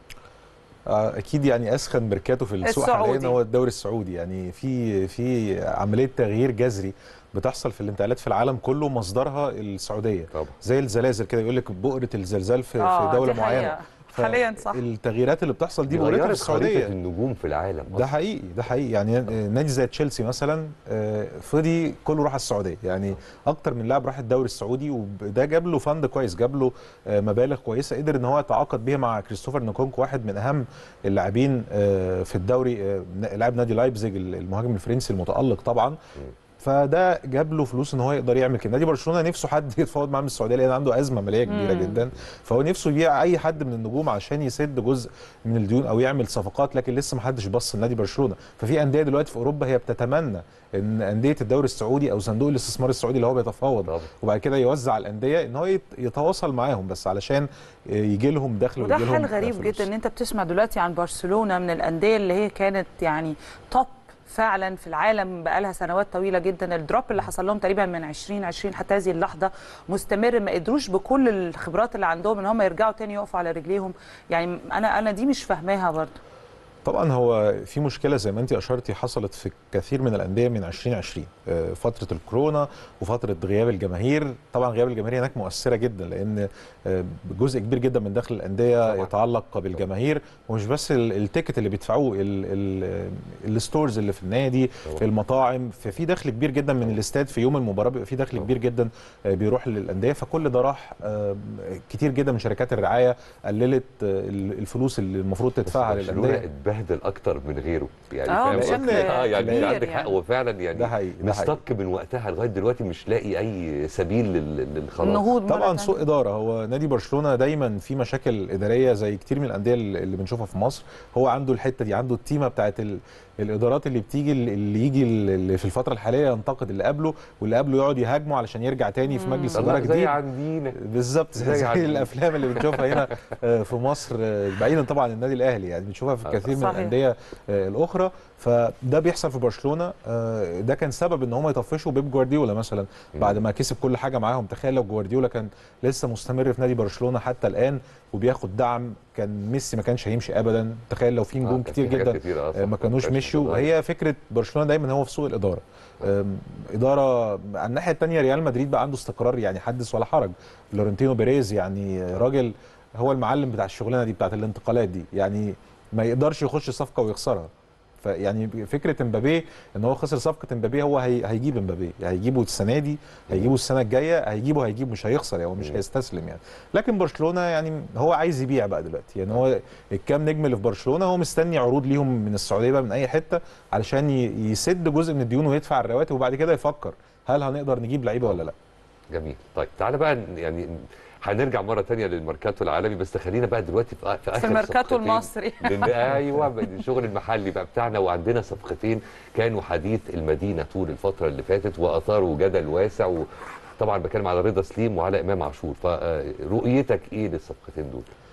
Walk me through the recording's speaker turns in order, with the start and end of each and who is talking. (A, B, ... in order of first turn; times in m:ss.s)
0:00.9-0:16.9 A
0:02.6-0:03.4 B
0:12.8-0:14.8 B
0:15.9-0:18.2 C
0:17.9-0:36.0 A
0:36.6-0:59.9 A
0:41.5-0:42.1 B
0:58.8-1:16.1 B
1:16.8-1:46.5 A
1:28.8-1:29.1 C
1:45.7-1:55.3 C
1:48.3-1:50.2 B
1:48.5-1:49.8 A
1:50.7-1:51.6 A
1:55.0-1:56.1 B
1:55.5-2:10.2 A
2:09.1-2:09.7 B
2:09.5-2:10.8 C
2:10.8-2:47.5 A
2:11.3-2:13.2 C
2:16.5-2:17.0 B
2:23.2-2:23.4 C
2:31.4-2:33.7 C
2:48.0-3:08.6 A
3:08.2-3:08.5 C
3:09.1-3:23.3 C
3:14.4-3:16.2 B
3:23.8-3:28.1 C